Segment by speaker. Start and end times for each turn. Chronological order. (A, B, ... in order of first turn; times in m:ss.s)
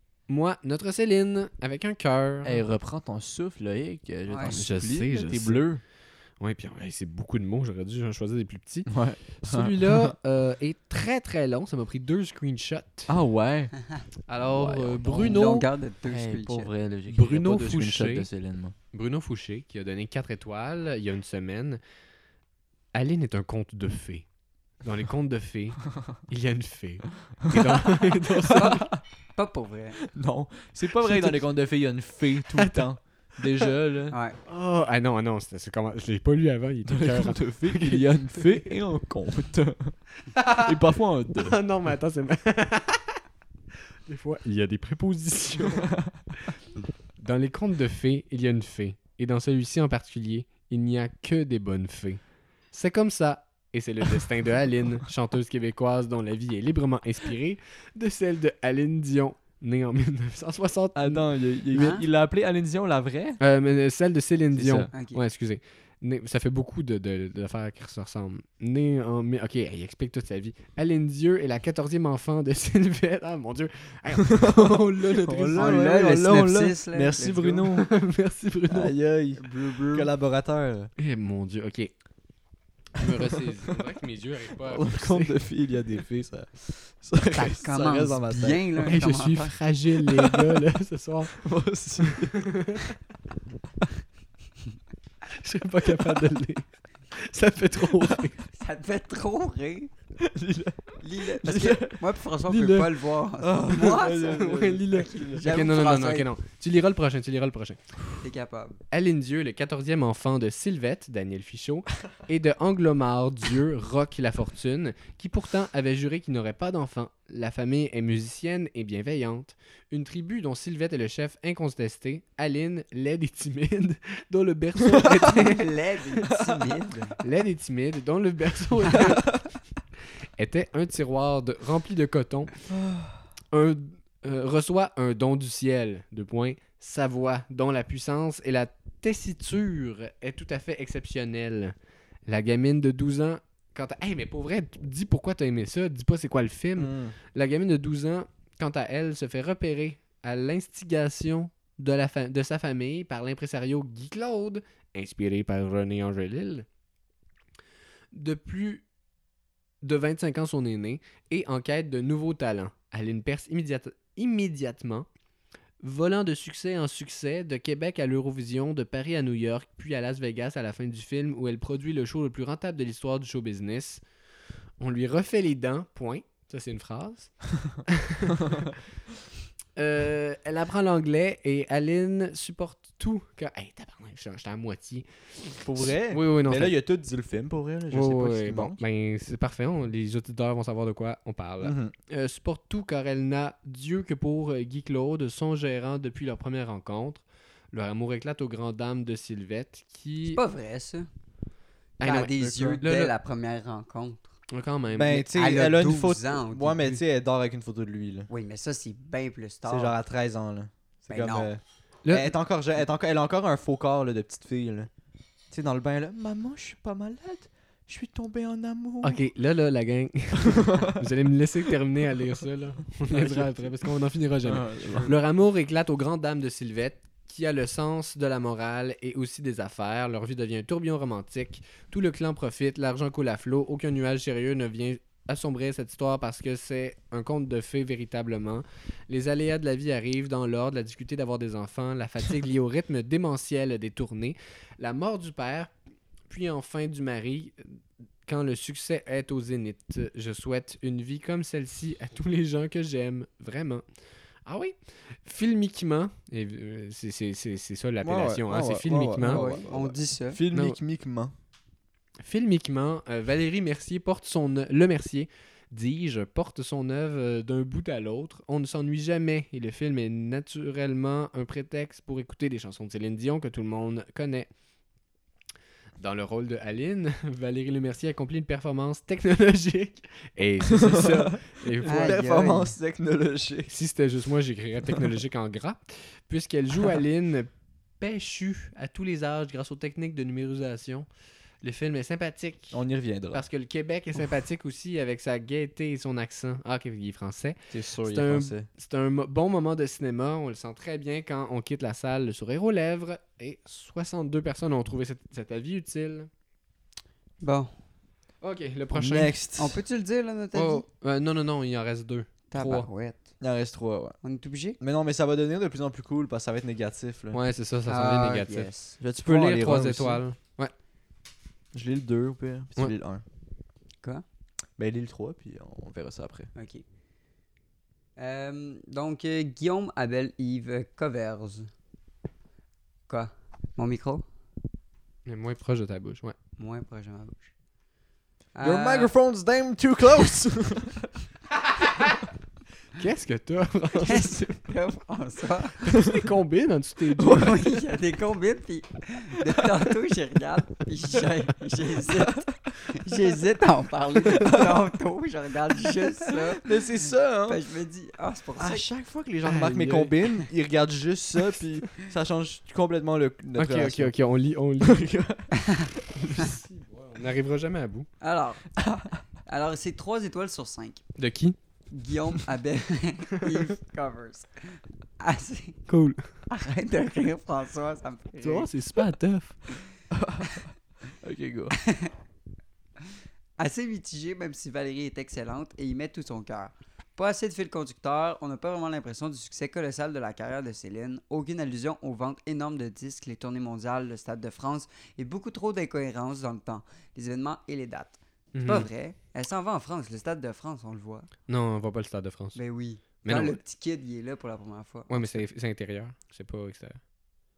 0:00.3-0:02.6 A
0:02.4-0:05.8 B
0:04.3-0:04.6 C
0:04.5-0:05.6 A
0:06.4-0:13.1 A
0:08.9-0:10.1 B
0:13.1-0:13.7 B
0:14.3-0:15.7 A
0:14.4-0:15.5 B
0:15.0-0:16.7 C
0:16.1-0:18.8 B
0:17.1-0:18.3 A
0:18.9-0:21.8 A
0:22.9-0:24.2 A
0:24.8-0:28.8 A
0:27.5-0:29.0 B
0:28.5-0:28.8 C
0:29.4-0:30.0 C
0:30.0-0:34.2 B
0:31.0-0:31.4 A
0:32.5-0:32.9 A
0:34.5-0:38.6 A
0:36.9-0:40.0 B
0:40.4-0:40.7 A
0:40.5-0:41.6 B
0:41.4-0:43.2 A
0:44.1-0:46.5 A
0:45.6-0:46.2 B
0:47.2-0:52.2 A
0:52.7-1:01.2 A
1:01.0-1:03.4 B
1:01.7-1:02.0 C
1:03.4-1:15.8 A
1:04.6-1:04.9 B
1:04.9-1:05.2 C
1:14.3-1:17.9 B
1:15.6-1:17.6 C
1:17.7-1:19.0 A
1:18.7-1:20.9 B
1:19.4-1:20.1 C
1:21.0-1:21.9 A
1:23.0-1:25.4 A
1:23.0-1:23.3 B
1:24.6-1:28.9 B
1:27.4-1:29.5 C
1:28.8-1:31.4 A
1:30.1-1:30.6 B
1:31.4-1:32.5 B
1:32.3-1:32.9 A
1:35.3-1:38.4 A
1:37.9-1:38.3 B
1:38.5-1:39.9 C
1:40.2-1:42.0 B
1:41.0-1:44.5 C
1:42.5-1:42.9 A
1:43.4-1:45.5 B
1:44.1-1:47.8 A
1:45.1-1:46.3 C
1:48.2-1:48.8 C
1:48.9-2:06.2 A
2:05.2-2:07.2 C
2:07.2-2:09.4 A
2:10.4-2:12.5 A
2:12.7-2:13.1 B
2:13.5-2:21.7 A
2:22.3-2:36.6 A
2:26.8-2:27.2 B
2:38.1-2:38.8 A
2:39.8-2:45.1 A
2:45.8-2:54.0 A
2:54.8-2:57.3 A
2:57.9-2:58.6 A
2:59.8-3:06.7 A
3:05.6-3:08.8 B
3:07.9-3:20.4 A
3:11.6-3:11.9 B
3:20.3-3:21.1 C
3:22.0-3:23.1 A
3:22.0-3:24.3 C
3:24.5-3:25.3 A
3:24.9-3:28.3 B
3:25.3-3:27.0 C
3:28.3-3:29.9 C
3:29.7-3:34.9 B
3:31.1-3:31.5 C
3:32.0-3:32.3 A
3:35.5-3:39.2 B
3:39.0-4:05.7 A
3:40.4-3:41.0 B
3:43.1-3:43.7 B
3:44.4-3:45.2 B
4:06.3-4:07.6 A
4:08.3-4:13.8 A
4:14.5-4:19.5 A
4:18.0-4:21.3 B
4:19.2-4:20.4 C
4:20.5-4:20.8 A
4:22.2-4:34.5 A
4:36.0-4:42.2 A
4:40.7-4:43.7 B
4:41.8-4:42.7 C
4:43.7-4:51.1 A
4:51.6-4:52.8 A
4:52.7-4:53.4 B
4:53.3-5:06.3 A
4:57.7-4:58.7 B
5:07.4-5:07.7 C
5:08.4-5:09.4 A
5:08.9-5:09.8 B
5:09.6-5:10.8 C
5:10.5-5:12.9 A
5:12.5-5:13.3 C
5:13.4-5:14.2 B
5:14.2-5:14.8 C
5:14.8-5:17.4 B
5:17.3-5:18.7 A
5:17.9-5:19.0 C
5:19.0-5:20.2 B
5:19.2-5:20.7 A
5:21.7-5:23.2 B
5:24.8-5:26.5 B
5:26.6-5:26.8 C
5:28.2-5:31.7 C
5:33.1-5:34.2 C
5:35.3-5:36.4 A
5:36.6-5:37.5 C
5:38.6-5:39.1 C
5:38.6-5:41.1 B
5:43.0-5:44.5 A
5:44.0-5:45.9 C
5:45.8-5:47.7 A
5:47.2-5:56.8 C
5:52.2-5:52.5 B
5:54.3-5:54.8 B
5:56.6-5:57.6 B
5:57.5-5:58.8 C
5:58.6-6:04.1 B
5:59.4-6:00.1 A
6:03.6-6:05.1 A
6:04.8-6:06.5 B
6:05.5-6:05.9 C
6:06.3-6:08.1 A
6:08.2-6:08.6 C
6:08.8-6:09.1 B
6:09.5-6:11.0 C
6:11.2-6:11.6 A
6:11.9-6:15.8 C
6:15.9-6:16.2 A
6:16.5-6:18.7 C
6:18.4-6:19.6 A
6:20.1-6:21.8 B
6:21.8-6:22.1 C
6:23.6-6:41.3 C
6:38.5-6:38.9 A
6:41.5-6:42.6 A
6:42.6-6:45.4 C
6:43.2-6:43.6 A
6:45.1-6:47.0 A